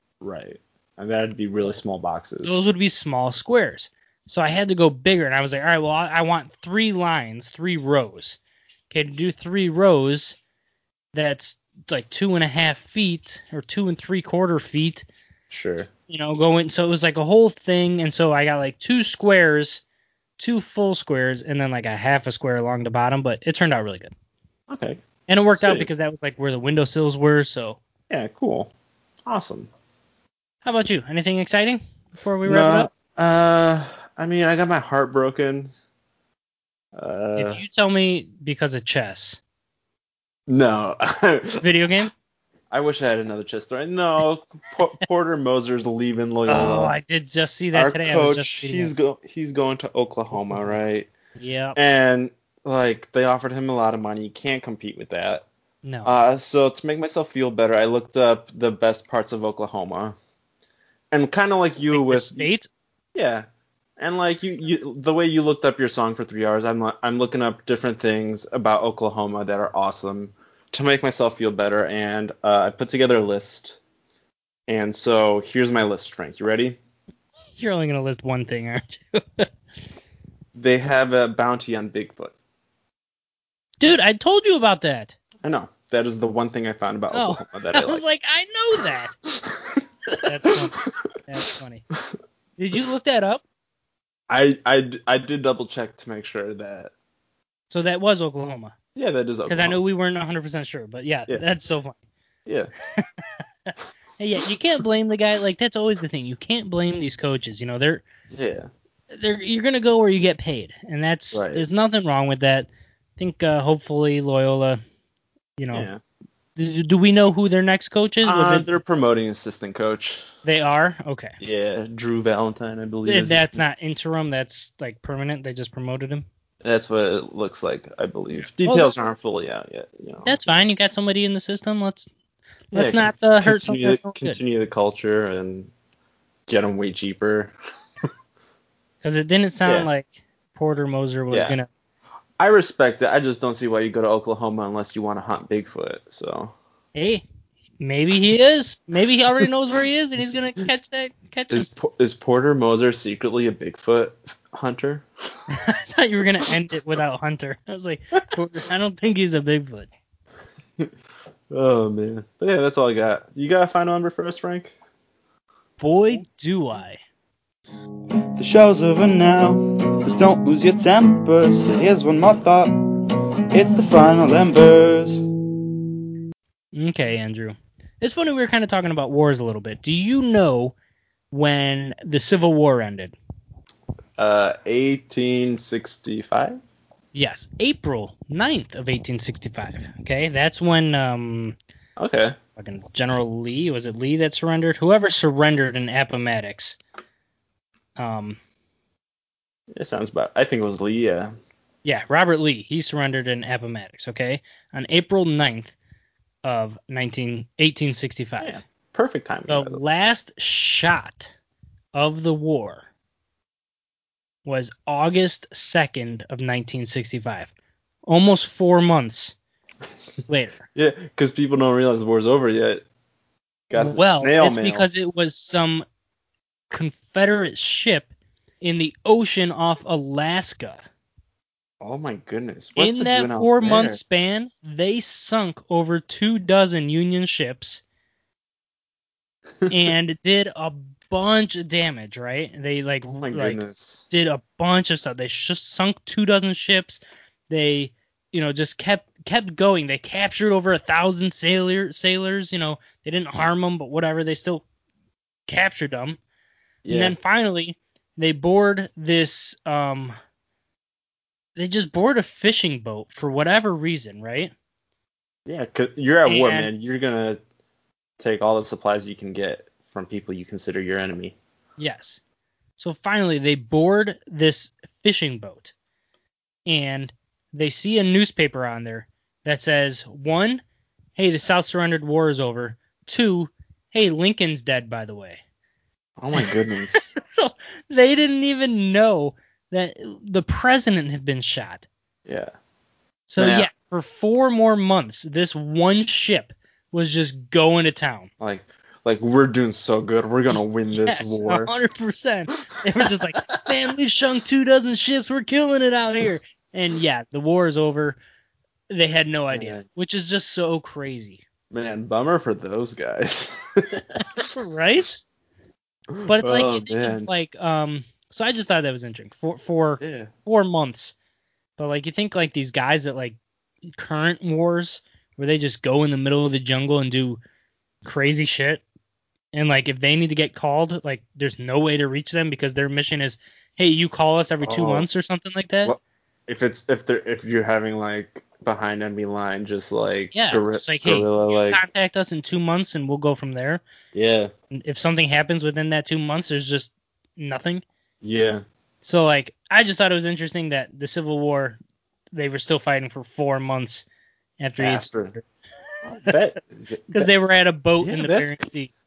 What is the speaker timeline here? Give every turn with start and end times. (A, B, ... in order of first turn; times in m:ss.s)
0:00.2-0:02.6 A
0:02.4-0:08.4 B
0:08.9-0:10.4 B
0:11.1-0:15.1 B
0:15.5-0:15.9 A
0:16.1-0:19.8 B
0:20.4-0:24.1 B
0:24.7-0:25.0 A
0:25.3-0:27.8 B
0:25.6-0:25.9 A
0:28.1-0:28.7 A
0:29.3-0:29.7 A
0:30.6-0:32.9 B
0:32.4-0:35.7 A
0:37.0-0:37.6 A
0:37.4-0:39.4 B
0:40.5-0:42.1 A
0:41.6-0:42.1 B
0:42.7-0:46.9 A
0:46.5-0:48.9 B
0:47.7-0:51.1 A
0:50.3-0:50.8 B
0:51.4-0:51.8 B
0:51.8-0:55.5 A
0:55.8-0:56.1 B
0:56.0-1:00.2 A
1:01.1-1:02.5 A
1:01.9-1:02.7 B
1:03.1-1:03.4 A
1:04.0-1:13.8 A
1:14.7-1:16.8 A
1:17.6-1:19.5 B
1:20.6-1:22.3 A
1:23.8-1:25.2 B
1:25.4-1:28.0 A
1:27.1-1:29.1 B
1:29.2-1:30.5 A
1:30.3-1:31.8 B
1:32.6-1:33.4 B
1:34.3-1:36.9 A
1:37.7-1:38.8 B
1:39.0-1:39.8 A
1:39.5-1:42.0 B
1:43.0-1:48.0 B
1:48.3-1:48.7 A
1:49.1-1:54.8 B
1:51.3-1:51.6 A
1:55.6-1:55.9 B
1:55.7-1:56.0 A
1:56.6-1:58.7 B
1:58.2-2:00.3 A
2:00.4-2:01.4 B
2:01.4-2:03.6 A
2:03.1-2:06.2 B
2:06.6-2:10.4 A
2:08.6-2:08.9 B
2:10.2-2:12.1 B
2:12.7-2:15.7 A
2:12.7-2:14.4 B
2:16.5-2:17.6 A
2:19.0-2:21.7 B
2:21.3-2:21.6 A
2:22.4-2:26.5 A
2:27.0-2:27.2 B
2:27.8-2:31.7 B
2:31.5-2:35.1 A
2:35.5-2:39.9 B
2:41.5-2:44.8 A
2:45.8-2:47.0 B
2:48.4-2:52.8 C
2:53.5-2:55.2 C
2:56.8-3:00.8 B
3:01.3-3:03.2 B
3:04.2-3:06.6 A
3:07.1-3:11.6 B
3:12.0-3:12.4 A
3:12.6-3:16.8 B
3:18.0-3:18.4 B
3:19.7-3:21.3 A
3:21.8-3:25.8 B
3:26.4-3:28.6 B
3:28.4-3:29.8 A
3:29.5-3:31.3 B
3:32.0-3:32.8 B
3:34.4-3:37.5 B
3:38.1-3:39.4 B
3:40.3-3:40.6 B
3:40.8-3:42.8 A
3:43.7-3:44.9 A
3:43.7-3:45.8 B
3:46.7-3:48.1 B
3:48.6-3:50.8 B
3:51.8-3:54.0 A
3:52.8-3:57.8 B
3:59.6-3:59.9 A
3:59.7-4:14.6 B
4:03.1-4:04.1 A
4:15.5-4:16.2 B
4:16.8-4:17.2 A
4:16.9-4:20.2 B
4:21.6-4:24.5 B
4:25.5-4:27.4 A
4:26.3-4:26.7 B
4:28.2-4:31.4 A
4:31.8-4:32.2 B
4:32.8-4:35.7 B
4:36.7-4:40.6 B
4:41.2-4:45.4 B
4:46.2-4:47.1 A
4:46.4-4:51.9 B
4:52.3-4:52.5 A
4:53.3-4:58.3 B
4:53.4-4:53.7 A
4:58.4-5:01.7 A
5:01.0-5:08.2 B
5:03.0-5:03.6 A
5:08.9-5:11.4 B
5:09.5-5:09.8 A
5:11.7-5:14.5 A
5:14.5-5:15.3 B
5:16.2-5:17.3 A
5:16.3-5:21.2 B
5:20.0-5:20.3 A
5:21.8-5:23.4 B
5:24.0-5:27.4 B
5:28.0-5:28.8 B
5:29.5-5:35.9 B
5:34.6-5:35.1 A
5:35.8-5:41.8 A
5:40.3-5:43.8 B
5:44.1-5:44.5 A
5:44.7-5:47.8 B
5:48.2-5:48.6 A
5:49.0-5:51.8 B
5:52.4-5:54.0 B
5:54.6-5:55.4 B
5:54.8-5:55.3 A
5:56.0-5:57.3 A
5:57.1-5:58.9 B
5:58.0-5:58.6 A